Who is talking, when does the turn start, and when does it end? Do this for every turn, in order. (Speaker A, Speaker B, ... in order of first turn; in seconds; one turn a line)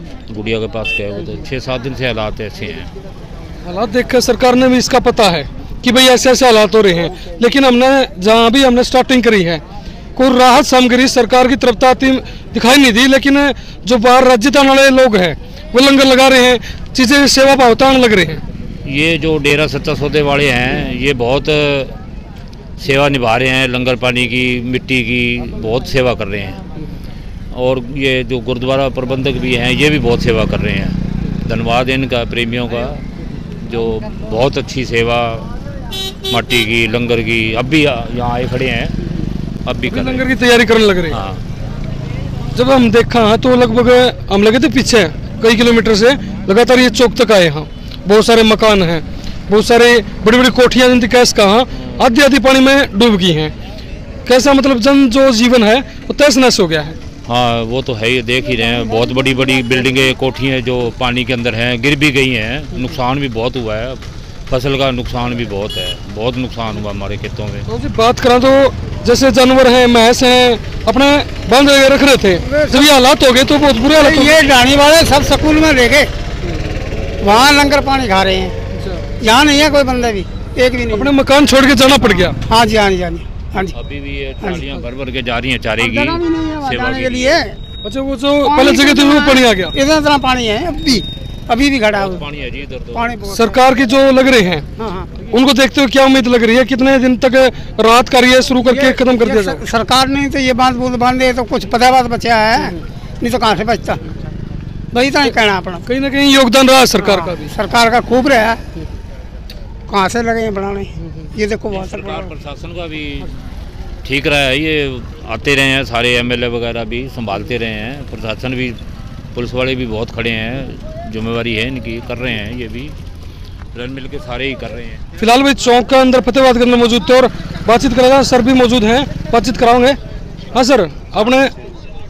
Speaker A: 0.3-2.9
Speaker B: 3.6-9.6
Speaker B: 10.2-18.4
Speaker A: 18.9-21.9
Speaker A: 22.8-26.6
Speaker A: 27.5-33.0
Speaker A: 33.6-35.5
Speaker A: 36.3-39.0
Speaker A: 39.6-40.2
Speaker B: 39.9-41.2
Speaker A: 41.1-41.4
Speaker B: 42.5-53.5
Speaker B: 54.3-57.0
Speaker A: 57.2-67.7
Speaker B: 67.7-74.3
Speaker C: 72.4-72.9
Speaker C: 74.0-76.1
Speaker C: 77.2-78.5
Speaker B: 78.8-79.0
Speaker C: 79.2-81.1
Speaker B: 80.9-82.4
Speaker C: 82.5-83.8
Speaker A: 83.7-87.4
Speaker C: 85.8-87.6
Speaker B: 87.8-89.7
Speaker C: 88.5-92.2
Speaker A: 92.0-93.1
Speaker C: 92.9-93.5
Speaker B: 93.3-94.7
Speaker C: 94.8-95.1
Speaker B: 95.2-99.6
Speaker C: 98.7-104.0
Speaker C: 104.9-105.8
Speaker B: 105.9-107.5
Speaker C: 107.0-108.6
Speaker C: 109.9-112.3
Speaker A: 111.7-113.3
Speaker A: 114.0-118.8
Speaker A: 119.3-122.9
Speaker A: 123.7-125.0
Speaker B: 125.2-130.0
Speaker B: 130.5-131.5